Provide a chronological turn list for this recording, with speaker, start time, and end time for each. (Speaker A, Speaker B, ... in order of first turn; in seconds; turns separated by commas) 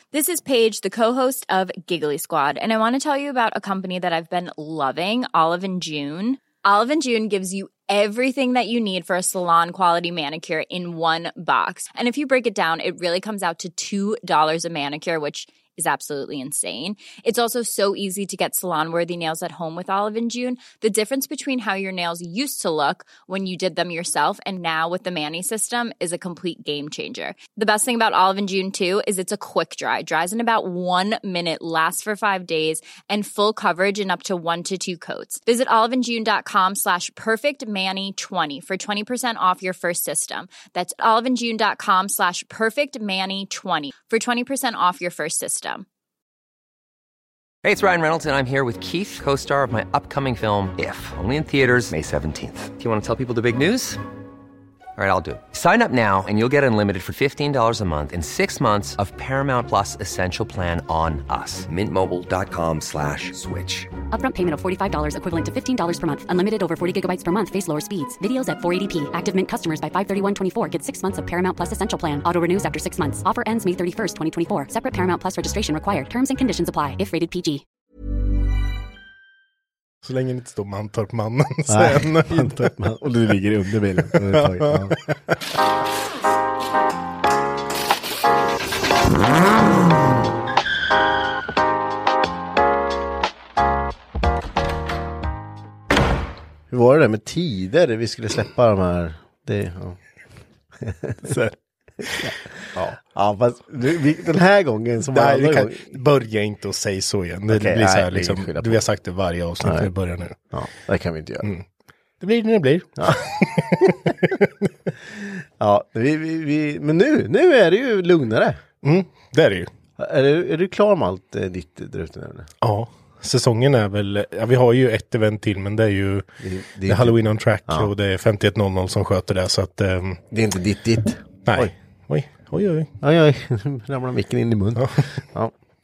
Speaker A: 0.1-45.8, Speaker B: 47.6-54.0, Speaker B: 55.0-63.9, Speaker C: 64.1-77.6, Speaker D: 80.0-82.7, Speaker E: 81.7-85.0, Speaker D: 84.1-85.2, Speaker E: 96.7-100.0, Speaker E: 100.8-101.3, Speaker D: 101.2-103.0, Speaker E: 102.0-102.4, Speaker E: 103.0-105.9, Speaker D: 105.1-110.3, Speaker E: 107.5-108.8, Speaker E: 109.6-109.9, Speaker E: 110.5-111.5, Speaker D: 112.2-114.5, Speaker E: 113.0-114.1, Speaker E: 115.1-118.6, Speaker D: 118.8-119.7, Speaker E: 120.0-122.5, Speaker D: 122.6-126.2, Speaker E: 126.4-127.9, Speaker D: 126.8-130.2, Speaker E: 130.3-131.7, Speaker D: 131.5-132.9, Speaker E: 133.0-135.5, Speaker D: 134.8-135.0